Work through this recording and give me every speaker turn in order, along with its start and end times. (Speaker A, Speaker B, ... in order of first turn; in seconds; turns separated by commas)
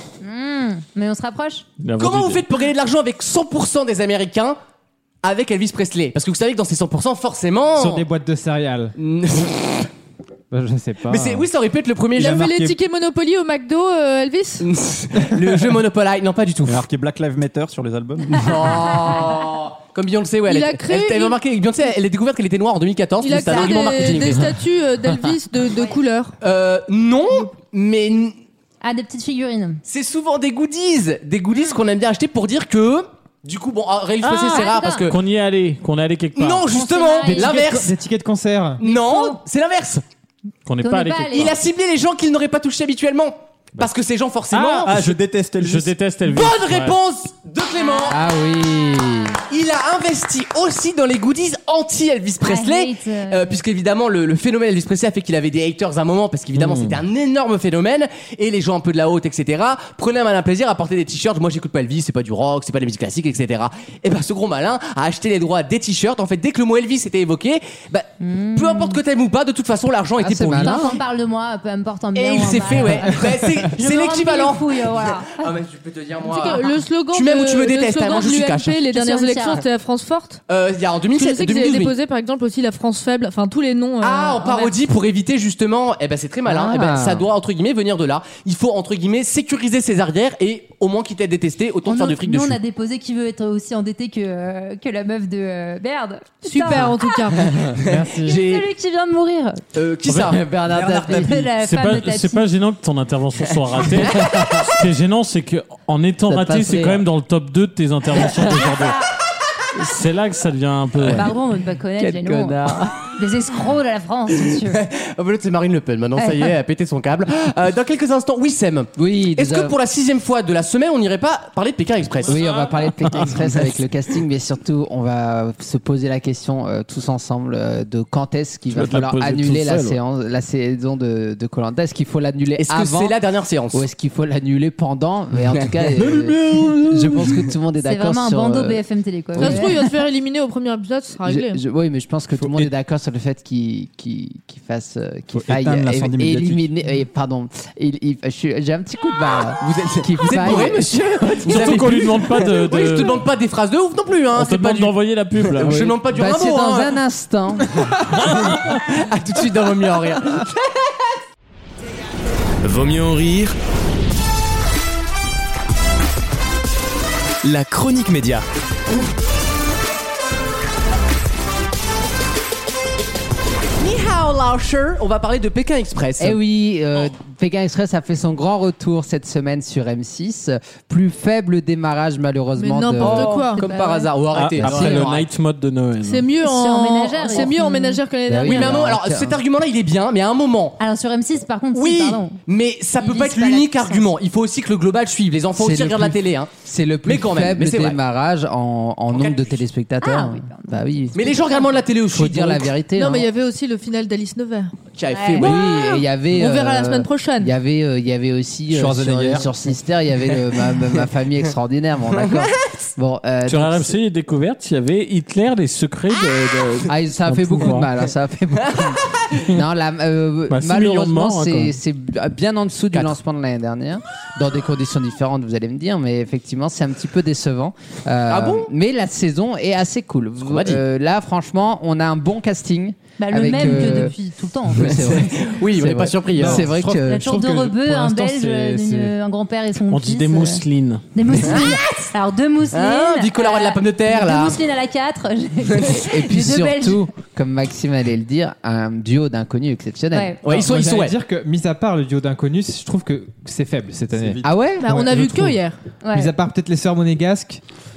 Speaker A: 0.2-1.6, Speaker B: 1.8-2.4, Speaker C: 2.0-4.6, Speaker C: 5.2-8.1, Speaker D: 7.8-8.9, Speaker C: 9.0-9.9, Speaker D: 10.5-11.5, Speaker C: 11.1-12.4, Speaker E: 12.2-12.8, Speaker F: 12.2-14.7, Speaker C: 14.6-16.8, Speaker E: 16.6-18.8, Speaker C: 18.3-24.5, Speaker F: 20.5-21.4, Speaker F: 23.2-26.4, Speaker A: 23.5-23.9, Speaker C: 26.4-28.4, Speaker A: 28.8-29.8, Speaker C: 29.9-35.2, Speaker B: 34.2-36.7, Speaker A: 34.5-35.0, Speaker C: 36.4-37.9, Speaker A: 36.7-37.6, Speaker D: 37.3-38.8, Speaker C: 38.8-40.0, Speaker A: 38.8-39.4, Speaker B: 40.6-41.6, Speaker A: 40.8-41.5, Speaker C: 41.3-44.9, Speaker B: 44.5-47.0, Speaker E: 44.9-45.9, Speaker C: 46.2-48.2, Speaker A: 47.8-49.3, Speaker G: 48.1-49.4, Speaker C: 49.5-71.0, Speaker A: 52.4-53.6, Speaker B: 56.6-57.0, Speaker A: 68.2-69.0, Speaker G: 70.2-71.0, Speaker A: 70.6-75.5, Speaker C: 72.2-78.8, Speaker F: 76.2-80.4, Speaker A: 78.9-79.6, Speaker C: 80.5-81.9, Speaker F: 81.2-84.6, Speaker C: 84.0-92.6, Speaker G: 86.5-87.3, Speaker A: 91.9-97.3, Speaker F: 96.4-97.5, Speaker C: 97.5-98.7, Speaker D: 97.8-98.4, Speaker A: 98.2-99.6, Speaker C: 99.8-100.5, Speaker B: 100.1-100.4, Speaker G: 100.3-101.4, Speaker E: 100.7-101.4, Speaker A: 101.1-102.5, Speaker B: 101.6-109.0, Speaker C: 103.9-104.2, Speaker G: 106.3-107.0, Speaker B: 109.8-111.3, Speaker A: 111.1-114.8, Speaker G: 112.0-113.0, Speaker C: 114.5-122.5, Speaker A: 116.2-116.5, Speaker G: 119.0-119.8, Speaker G: 122.3-133.2, Speaker B: 122.4-123.4, Speaker B: 128.7-130.0, Speaker C: 132.6-133.8, Speaker G: 133.7-138.8, Speaker C: 135.5-135.9, Speaker E: 136.0-137.2, Speaker A: 137.8-139.9, Speaker G: 139.4-139.7, Speaker F: 139.4-141.6, Speaker G: 141.2-151.9, Speaker E: 142.4-142.7, Speaker E: 145.3-146.7, Speaker C: 149.6-157.0, Speaker B: 151.5-153.2, Speaker B: 154.3-155.8, Speaker G: 155.7-157.8, Speaker B: 158.2-158.8, Speaker C: 158.3-160.5, Speaker H: 162.6-163.6, Speaker H: 167.4-168.4, Speaker C: 173.8-176.4, Speaker G: 176.2-183.3, Speaker F: 182.6-183.6, Speaker C: 183.0-185.3, Speaker A: 183.1-184.1, Speaker B: 184.3-186.3, Speaker G: 184.6-185.1, Speaker F: 186.1-188.8, Speaker A: 186.4-188.0, Speaker G: 188.3-189.4, Speaker C: 188.4-190.8, Speaker A: 190.8-192.4, Speaker C: 191.7-196.5, Speaker A: 193.0-194.1, Speaker G: 195.6-201.4, Speaker C: 197.1-198.0, Speaker C: 199.1-199.7, Speaker A: 200.0-201.0, Speaker C: 201.1-202.8, Speaker G: 202.1-203.3, Speaker F: 203.0-204.7, Speaker C: 205.0-205.7, Speaker A: 205.1-205.7, Speaker G: 205.4-214.0, Speaker F: 206.3-207.5, Speaker E: 208.7-209.5, Speaker C: 212.1-212.5, Speaker B: 213.5-217.9, Speaker G: 216.9-234.2, Speaker B: 220.5-221.8, Speaker C: 228.3-228.7, Speaker C: 230.4-230.8, Speaker A: 233.2-235.4, Speaker C: 234.8-236.7, Speaker G: 234.8-237.3, Speaker D: 236.4-239.1, Speaker A: 236.9-240.6, Speaker B: 239.9-241.0, Speaker A: 241.2-247.1, Speaker C: 241.4-242.0, Speaker C: 242.7-244.6, Speaker C: 245.7-246.0, Speaker G: 245.9-250.4, Speaker A: 250.1-250.4, Speaker C: 250.4-251.2, Speaker D: 250.5-255.3, Speaker E: 254.1-254.5, Speaker G: 254.4-255.0, Speaker F: 254.8-255.8, Speaker A: 256.0-256.3, Speaker D: 256.1-257.6